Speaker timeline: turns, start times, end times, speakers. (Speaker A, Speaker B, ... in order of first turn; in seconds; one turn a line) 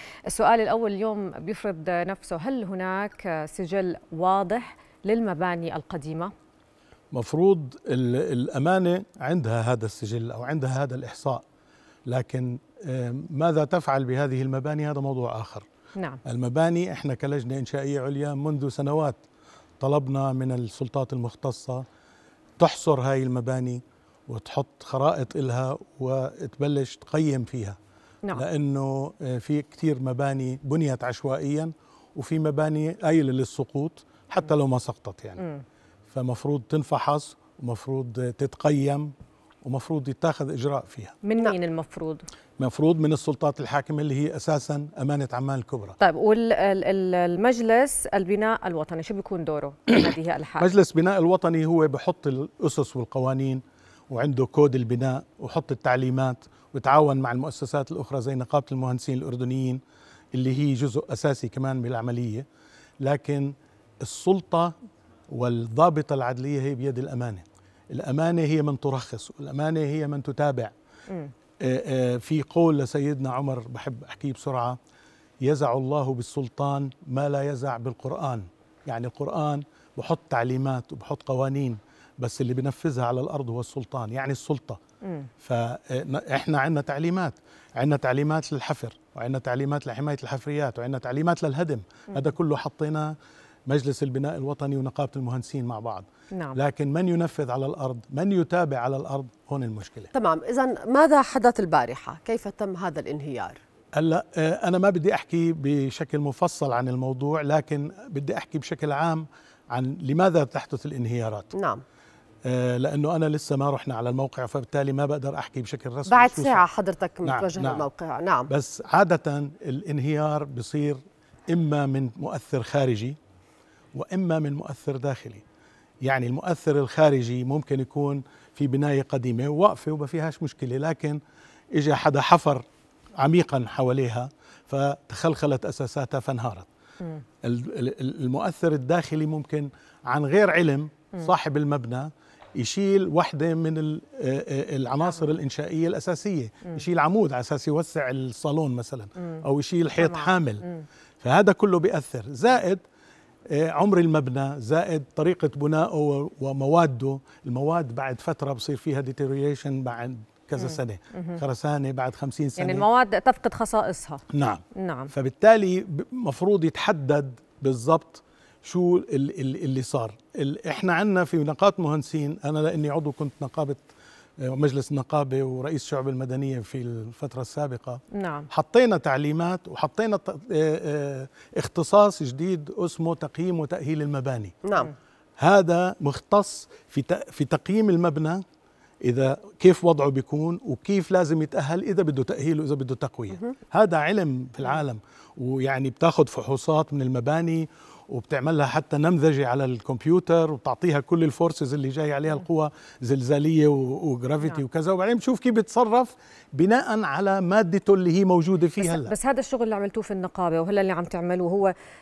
Speaker A: 0.3-6.3
Speaker B: 7.1-11.4
Speaker B: 12.1-15.7
Speaker A: 16.0-16.2
Speaker B: 16.3-19.2
Speaker B: 19.8-21.9
Speaker B: 22.6-27.8
Speaker B: 28.3-35.4
Speaker B: 36.1-39.1
Speaker B: 39.6-41.2
Speaker A: 41.2-42.3
Speaker B: 42.6-46.0
Speaker A: 46.0-50.7
Speaker B: 50.6-59.8
Speaker B: 60.3-62.5
Speaker B: 63.0-64.7
Speaker B: 65.3-70.7
Speaker B: 71.6-74.8
Speaker B: 75.4-84.8
Speaker B: 85.4-93.2
Speaker B: 93.7-100.1
Speaker A: 96.3-96.6
Speaker C: 100.1-103.6
Speaker B: 104.0-111.5
Speaker C: 111.5-111.8
Speaker B: 112.5-116.6
Speaker C: 116.1-118.5
Speaker B: 117.2-117.9
Speaker B: 118.5-123.2
Speaker B: 123.9-125.4
Speaker B: 126.0-131.2
Speaker B: 131.8-132.7
Speaker B: 133.2-136.7
Speaker B: 137.4-150.7
Speaker A: 150.0-150.8
Speaker B: 151.2-152.8
Speaker B: 153.5-162.9
Speaker A: 160.6-161.4
Speaker A: 162.6-164.2
Speaker B: 164.3-173.8
Speaker A: 164.8-165.1
Speaker B: 174.4-184.7
Speaker A: 178.1-178.5
Speaker C: 184.7-184.9
Speaker B: 185.4-188.4
Speaker B: 189.1-209.1
Speaker A: 208.8-211.7